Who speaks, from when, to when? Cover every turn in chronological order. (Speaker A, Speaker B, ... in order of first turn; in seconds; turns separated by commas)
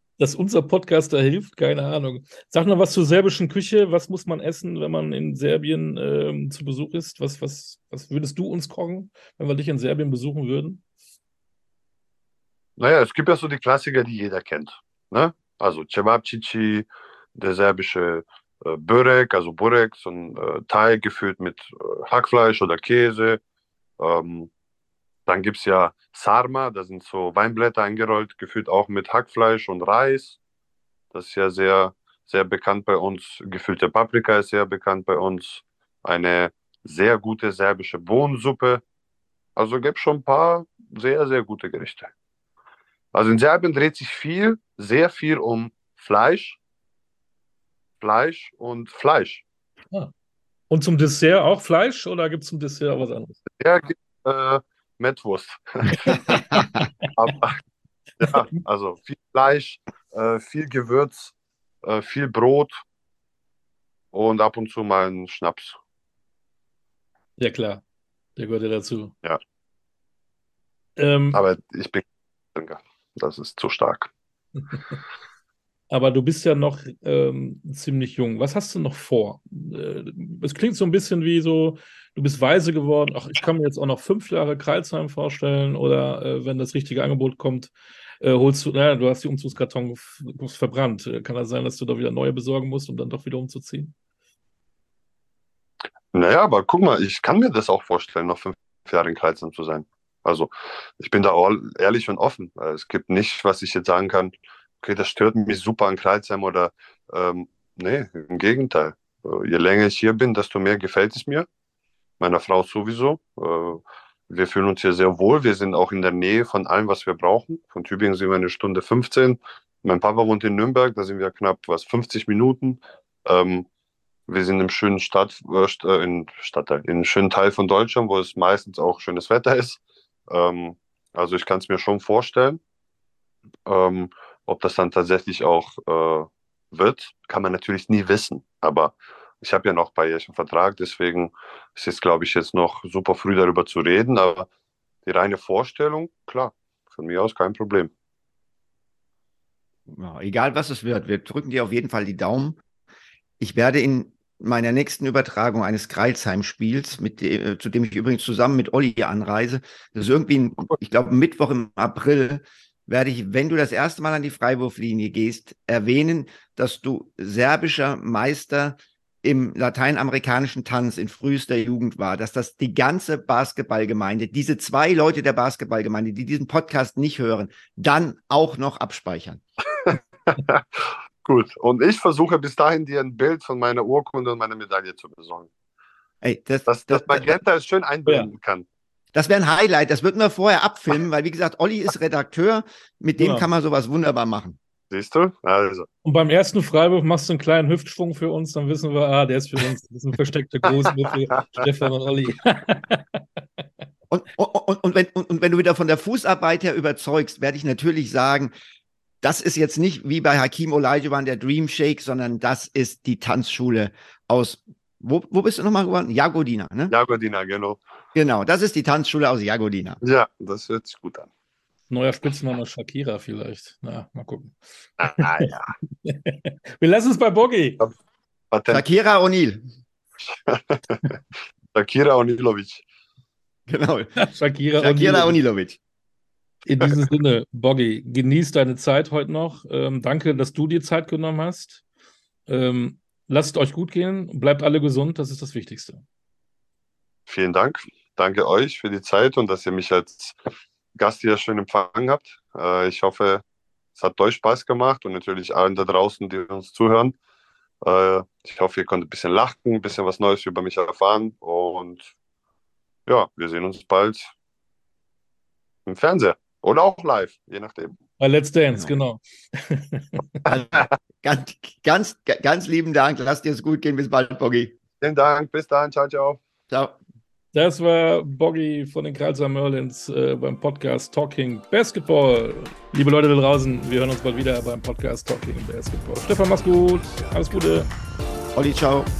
Speaker A: 0.2-10.8, Speaker B: 12.8-23.4, Speaker B: 24.0-24.5, Speaker B: 25.3-30.4, Speaker B: 31.1-38.8, Speaker B: 39.5-42.1, Speaker B: 43.1-46.6, Speaker B: 48.0-49.4, Speaker A: 50.7-53.4, Speaker B: 53.6-56.4, Speaker A: 56.0-56.7, Speaker B: 57.1-57.6, Speaker B: 58.2-62.8, Speaker B: 64.1-65.8, Speaker A: 67.4-67.8, Speaker A: 68.3-69.1, Speaker A: 71.0-71.4, Speaker B: 71.3-72.0, Speaker B: 72.5-74.1, Speaker A: 75.9-93.9, Speaker B: 96.1-111.5, Speaker B: 112.2-123.7, Speaker B: 124.3-132.6, Speaker B: 133.7-144.5, Speaker B: 145.0-147.9, Speaker C: 149.9-152.6, Speaker C: 153.4-179.4, Speaker B: 179.8-185.5, Speaker C: 186.2-187.3, Speaker B: 186.7-188.7, Speaker C: 189.1-194.6, Speaker A: 193.2-193.5, Speaker B: 194.9-195.9, Speaker A: 196.0-203.2, Speaker C: 204.1-208.5, Speaker C: 209.2-216.9, Speaker B: 216.9-217.8, Speaker C: 218.1-220.0, Speaker B: 220.0-221.3, Speaker A: 221.9-225.5, Speaker B: 225.0-225.7, Speaker A: 226.0-227.8, Speaker B: 228.5-228.8, Speaker C: 228.7-229.6, Speaker B: 230.3-231.1, Speaker B: 231.7-232.8, Speaker C: 233.7-234.1, Speaker A: 234.2-235.4, Speaker C: 234.8-235.8, Speaker A: 236.7-241.8, Speaker A: 242.5-246.0, Speaker B: 247.3-250.4, Speaker B: 250.9-253.4, Speaker B: 254.0-257.1, Speaker B: 257.8-262.1, Speaker B: 263.1-264.3, Speaker B: 265.9-267.9, Speaker A: 268.2-270.4, Speaker C: 268.8-269.0, Speaker C: 270.4-274.8, Speaker B: 275.0-276.4, Speaker C: 276.7-277.0, Speaker A: 277.5-287.9, Speaker C: 288.5-289.1